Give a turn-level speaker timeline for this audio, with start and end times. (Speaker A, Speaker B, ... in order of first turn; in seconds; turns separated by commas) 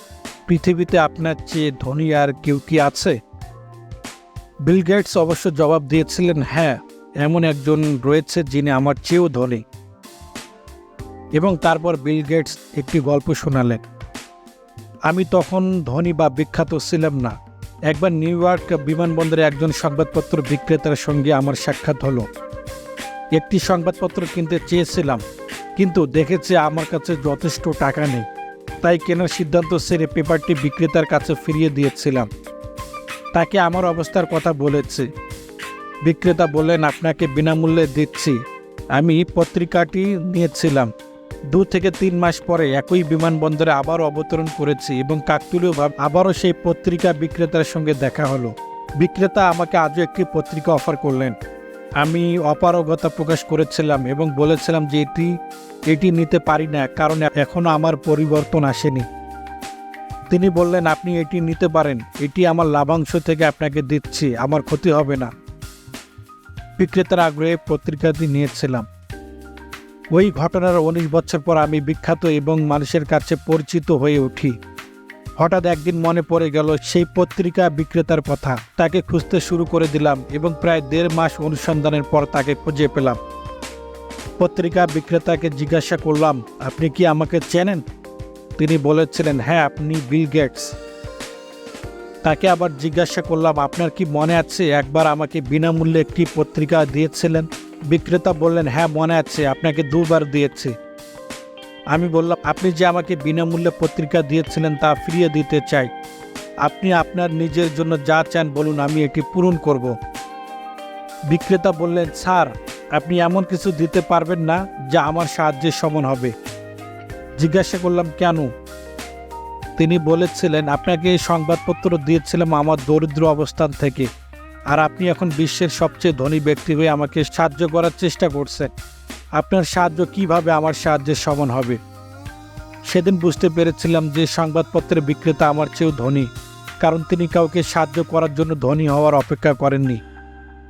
Speaker A: 0.5-3.2, Speaker A: 4.6-9.6, Speaker A: 11.3-13.8, Speaker A: 15.1-17.3, Speaker A: 17.9-22.3, Speaker A: 23.3-25.2, Speaker A: 25.8-28.2, Speaker A: 28.8-32.3, Speaker A: 33.3-35.1, Speaker A: 36.0-38.4, Speaker A: 39.0-40.9, Speaker A: 41.5-51.3, Speaker A: 52.0-55.3, Speaker A: 55.9-59.1, Speaker A: 60.3-65.3, Speaker A: 66.8-68.9, Speaker A: 70.1-74.5, Speaker A: 75.4-83.2, Speaker A: 84.4-87.8, Speaker A: 88.6-90.7, Speaker A: 92.2-100.8, Speaker A: 101.9-105.9, Speaker A: 106.6-109.9, Speaker A: 111.3-116.3, Speaker A: 117.4-118.5, Speaker A: 119.8-124.1, Speaker A: 124.7-128.7, Speaker A: 129.3-131.8, Speaker A: 132.9-136.3, Speaker A: 136.8-140.0